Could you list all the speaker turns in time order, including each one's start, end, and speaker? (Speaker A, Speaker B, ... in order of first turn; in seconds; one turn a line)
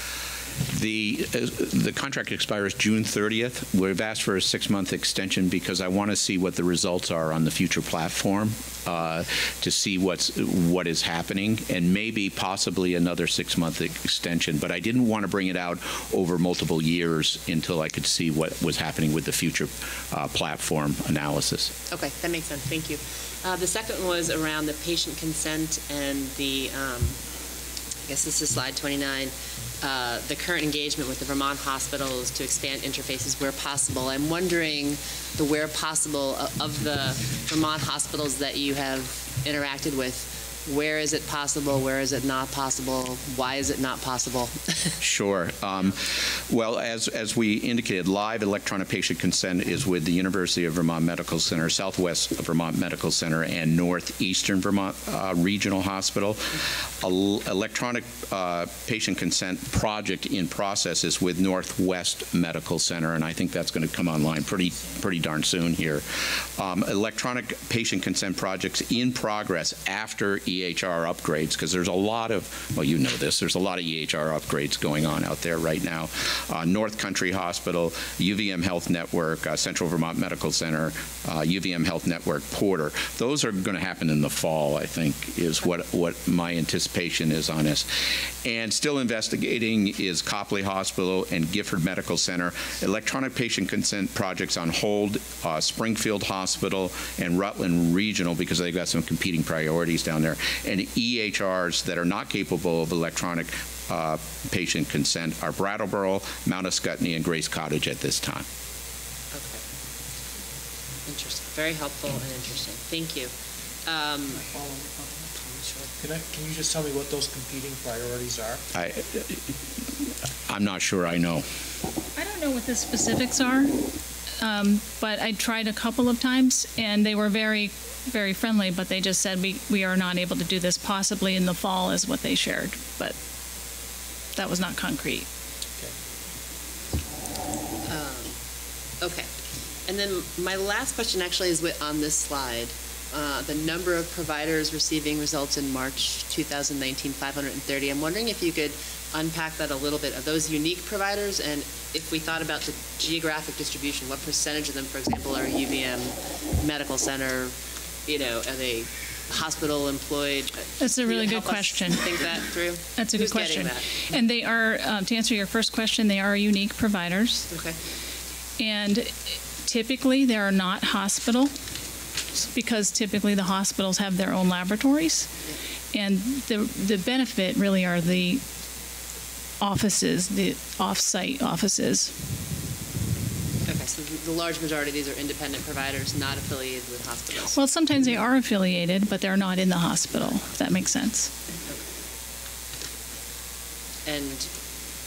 Speaker A: 0.7-21.7
Speaker B: 21.9-27.2
Speaker B: 28.1-44.9
Speaker A: 45.0-108.5
Speaker B: 109.3-109.6
Speaker B: 111.0-113.3
Speaker B: 113.8-114.5
Speaker C: 114.4-115.3
Speaker B: 115.3-115.7
Speaker C: 115.8-118.6
Speaker A: 118.7-119.4
Speaker A: 120.5-121.4
Speaker D: 122.1-123.7
Speaker D: 124.4-133.2
Speaker D: 134.3-135.3
Speaker B: 137.8-138.4
Speaker B: 139.0-139.3
Speaker B: 139.9-163.9
Speaker D: 160.8-162.1
Speaker D: 162.9-167.5
Speaker B: 167.5-167.8
Speaker D: 168.6-171.5
Speaker D: 172.3-175.3
Speaker D: 175.9-178.4
Speaker D: 179.6-182.1
Speaker B: 183.7-187.6
Speaker D: 187.5-191.3
Speaker B: 194.1-194.5